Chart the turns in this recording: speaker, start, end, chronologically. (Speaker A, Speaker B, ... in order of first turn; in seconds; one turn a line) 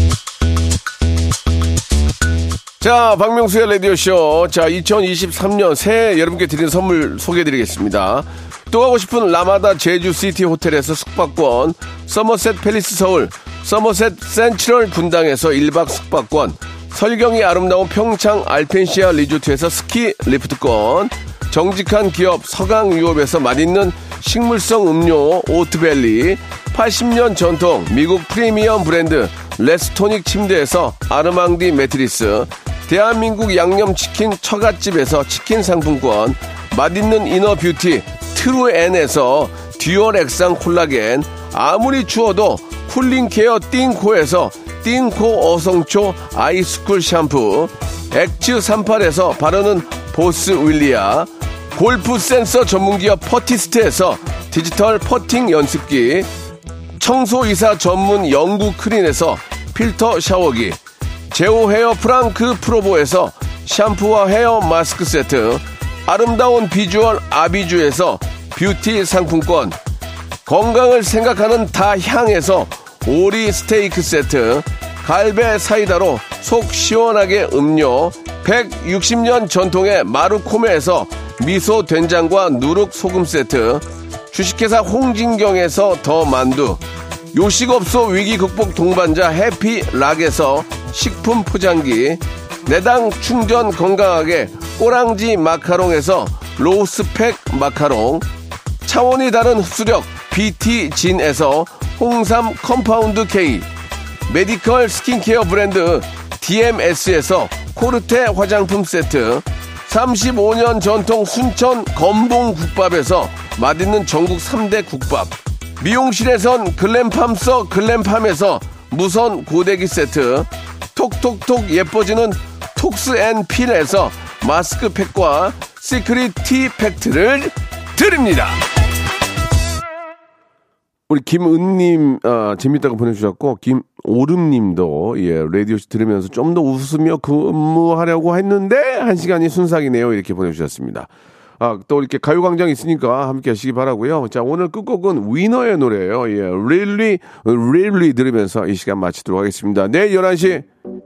Speaker A: 2.8-56.3
Speaker A: 57.0-60.8
Speaker A: 61.3-69.8
Speaker A: 70.5-86.8
Speaker A: 87.3-98.2
Speaker A: 98.8-103.7
Speaker A: 104.3-128.7
Speaker A: 131.1-141.1
Speaker A: 141.6-150.7